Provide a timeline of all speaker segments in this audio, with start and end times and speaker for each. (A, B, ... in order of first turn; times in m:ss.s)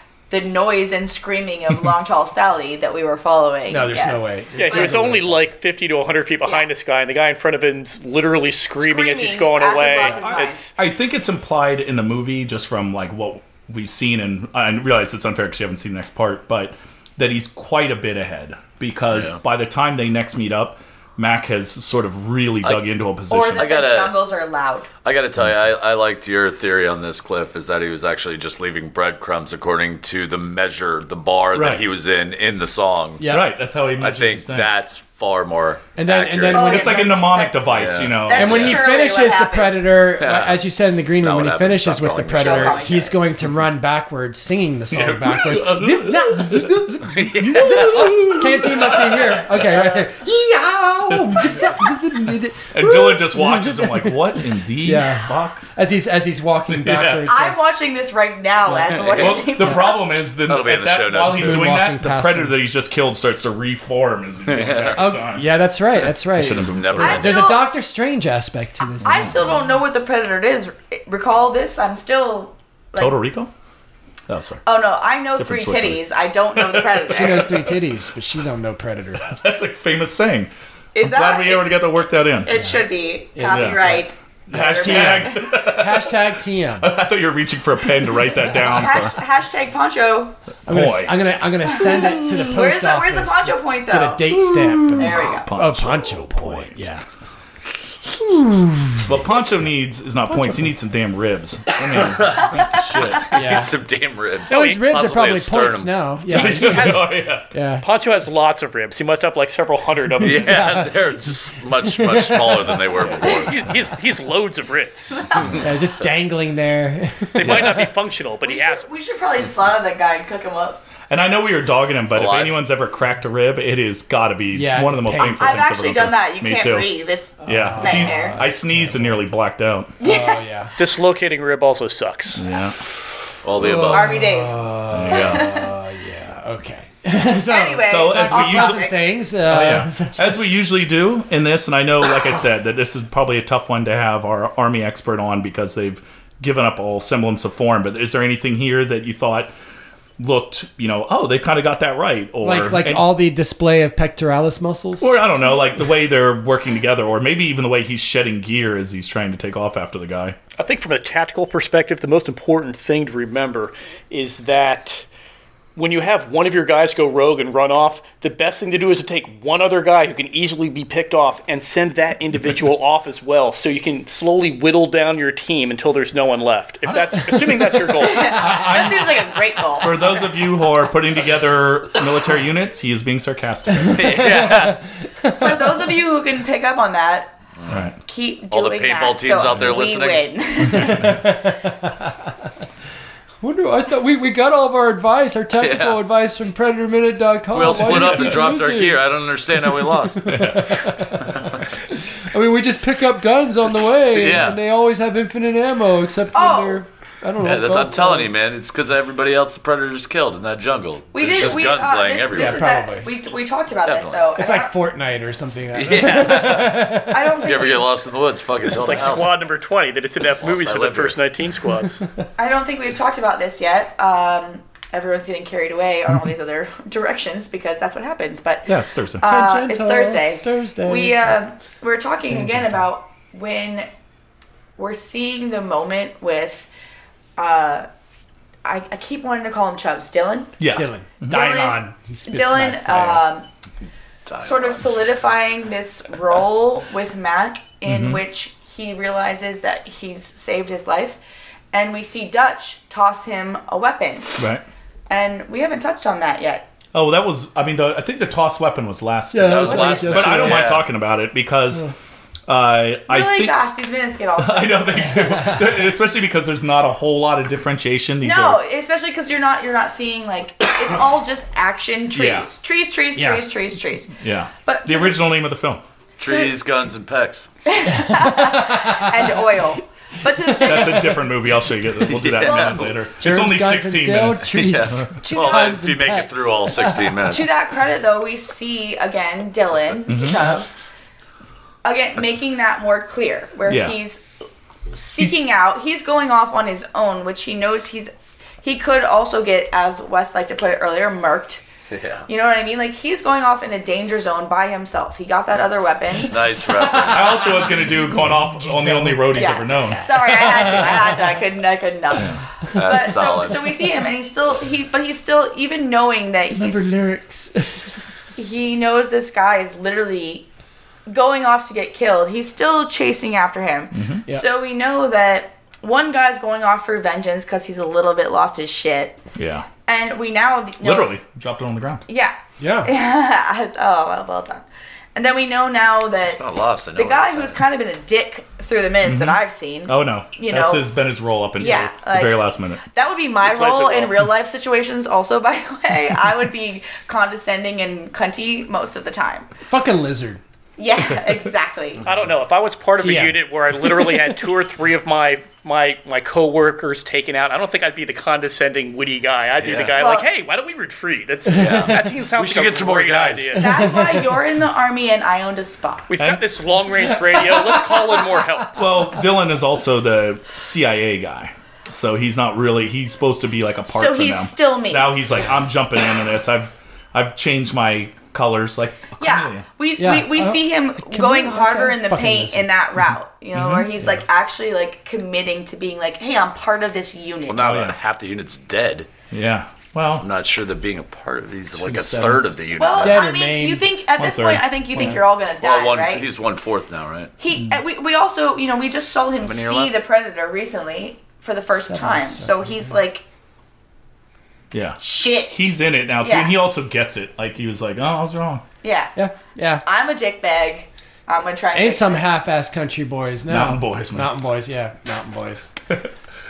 0:00.3-0:05.1 A
0:03.7-0:05.4 B
0:04.6-0:10.7 C
0:08.8-0:10.6 A
0:10.8-0:23.7 D
0:22.6-0:22.9 E
0:23.3-0:24.9 A
0:23.6-0:24.2 E
0:25.0-0:33.3 E
0:31.5-0:31.8 D
0:33.2-0:33.5 B
0:33.2-0:34.7 D
0:34.0-0:36.7 E
0:36.0-0:37.2 B
0:36.5-0:38.8 D
0:36.5-0:39.9 A
0:37.7-0:38.8 E
0:38.3-0:57.6 B
0:40.2-0:43.0 E
0:42.3-0:43.2 A
0:44.9-0:46.7 D
0:47.1-0:47.8 E
0:47.4-0:49.7 D
0:51.2-0:51.8 D
0:52.7-0:55.6 D
0:56.7-0:57.3 D
0:57.1-1:00.0 A
0:58.7-0:59.2 B
0:59.1-1:05.5 D
1:00.4-1:01.6 E
1:01.2-1:02.6 B
1:04.5-1:05.0 E
1:05.0-1:09.4 B
1:06.2-1:07.4 D
1:06.6-1:07.4 E
1:07.0-1:07.7 A
1:09.0-1:13.2 A
1:09.1-1:09.4 D
1:13.0-1:13.5 D
1:14.3-1:14.6 D
1:14.7-1:17.6 A
1:15.4-1:16.0 D
1:16.6-1:17.6 D
1:17.1-1:19.4 B
1:19.2-1:20.5 D
1:21.0-1:21.8 A
1:21.0-1:22.5 D
1:22.4-1:25.3 A
1:23.4-1:26.9 B
1:23.5-1:23.8 D
1:24.5-1:26.2 D
1:26.8-1:29.2 D
1:28.6-1:30.4 A
1:30.7-1:31.3 D
1:30.7-1:37.0 B
1:31.8-1:34.2 A
1:34.5-1:36.9 D
1:35.0-1:35.5 A
1:38.2-1:39.1 B
1:39.0-1:43.8 D
1:40.3-1:40.7 B
1:42.0-1:42.5 E
1:43.3-1:43.7 B
1:43.4-1:46.0 E
1:44.5-1:44.9 C
1:44.5-1:47.8 B
1:46.3-1:47.5 D
1:46.3-1:47.1 C
1:47.8-1:50.7 C
1:50.2-1:53.5 E
1:50.2-1:51.1 B
1:51.8-1:53.5 B
1:53.3-1:55.2 C
1:55.1-1:55.7 A
1:55.5-1:57.7 B
1:57.4-1:58.9 C
1:57.5-1:57.8 D
1:58.4-2:00.8 A
2:01.1-2:06.9 D
2:02.1-2:02.6 E
2:04.5-2:05.5 B
2:05.2-2:08.4 A
2:07.4-2:09.2 B
2:07.4-2:09.9 D
2:10.0-2:10.4 A
2:10.0-2:10.7 B
2:10.8-2:12.4 C
2:12.4-2:12.8 D
2:13.4-2:14.2 E
2:13.6-2:20.4 B
2:13.8-2:14.6 A
2:14.9-2:15.5 D
2:15.1-2:15.6 A
2:17.5-2:19.0 A
2:17.8-2:29.5 D
2:30.2-2:33.2 D
2:32.4-2:35.1 B
2:35.0-2:40.4 D
2:40.6-2:45.1 C
2:45.8-2:58.7 C
2:58.0-3:00.0 A
2:58.4-2:59.1 D
2:59.8-3:04.5 D
3:03.8-3:05.8 B
3:04.0-3:04.8 E
3:04.3-3:04.6 C
3:05.4-3:07.3 A
3:07.7-3:08.0 D
3:08.0-3:11.2 A
3:08.5-3:10.3 E
3:10.7-3:11.2 D
3:10.7-3:11.9 B
3:13.4-3:28.4 B
3:15.5-3:16.0 E
3:17.5-3:20.3 E
3:17.7-3:18.4 D
3:20.3-3:21.1 D
3:24.1-3:24.6 E
3:26.3-3:26.8 A
3:27.4-3:32.7 E
3:31.1-3:34.7 A
3:32.2-3:33.1 B
3:33.8-3:34.3 E
3:34.4-3:37.4 B
3:35.7-3:36.9 E
3:37.1-3:38.0 A
3:37.4-3:39.3 E
3:38.6-3:42.0 C
3:40.4-3:41.2 E
3:42.4-3:53.9 A
3:48.7-3:49.3 D
3:49.2-3:51.3 B
3:52.3-3:52.8 B
3:54.8-3:56.7 A
3:57.4-3:57.9 A
3:58.6-4:00.6 A
4:00.6-4:01.4 D
4:00.7-4:03.3 B
4:01.3-4:03.5 A
4:04.3-4:05.2 E
4:04.4-4:11.2 A
4:07.8-4:08.2 D
4:11.7-4:14.4 A
4:14.4-4:14.6 D
4:15.1-4:16.7 A
4:16.9-4:21.9 D
4:19.3-4:20.6 B
4:19.4-4:20.9 E
4:19.7-4:20.3 A
4:22.5-4:23.6 D
4:23.1-4:25.2 A
4:24.4-4:28.6 D
4:28.2-4:35.2 A
4:32.1-4:32.5 D
4:33.2-4:33.5 B
4:34.2-4:35.8 D
4:36.2-4:37.5 E
4:36.2-4:36.8 A
4:37.7-4:41.2 A
4:40.6-4:45.2 D
4:42.0-4:43.0 E
4:42.4-4:43.0 A
4:43.2-4:47.4 B
4:44.5-4:47.5 E
4:45.4-4:45.7 A
4:47.2-4:50.8 A
4:50.1-4:50.4 D
4:51.8-4:54.2 A
4:53.7-4:54.0 D
4:54.9-4:58.1 A
4:58.6-5:01.6 A
5:01.9-5:02.3 E
5:02.3-5:07.6 A
5:06.3-5:07.3 E
5:06.8-5:11.4 B
5:07.0-5:10.1 D
5:09.3-5:16.9 A
5:12.7-5:13.7 E
5:13.5-5:13.9 B
5:16.5-5:17.8 B
5:18.4-5:20.5 A
5:21.1-5:29.2 A
5:23.9-5:24.3 D
5:29.4-5:29.7 D
5:29.9-5:31.2 A
5:30.8-5:32.0 D
5:32.1-5:34.6 A
5:32.6-5:32.9 B
5:35.2-5:36.4 A
5:36.2-5:37.6 E
5:37.0-5:40.8 A
5:39.0-5:42.8 D
5:41.6-5:49.5 A
5:43.4-5:44.2 C
5:49.7-5:50.4 B
5:50.8-5:52.0 A
5:52.0-6:03.8 C
5:53.0-5:53.4 B
5:59.6-6:00.0 E
6:00.0-6:00.3 A
6:01.5-6:03.6 E
6:03.6-6:06.1 A
6:03.8-6:04.3 B
6:06.1-6:08.8 C
6:07.3-6:08.3 B
6:08.7-6:19.7 D
6:13.9-6:15.1 A
6:19.2-6:27.7 A
6:20.0-6:22.7 B
6:23.5-6:23.9 D
6:27.5-6:29.1 E
6:27.6-6:28.0 D
6:29.3-6:30.3 D
6:30.2-6:33.3 E
6:31.7-6:32.5 D
6:32.7-6:36.3 A
6:33.0-6:33.9 B
6:34.2-6:35.1 D
6:35.5-6:37.3 E
6:37.4-6:43.2 A
6:37.5-6:37.8 D
6:39.4-6:40.0 E
6:41.8-6:42.7 B
6:44.7-6:48.6 D
6:45.0-6:45.6 A
6:46.2-6:46.6 A
6:48.8-6:49.1 A
6:49.2-6:49.9 B
6:49.8-6:52.4 A
6:51.7-6:55.7 B
6:53.5-6:54.3 D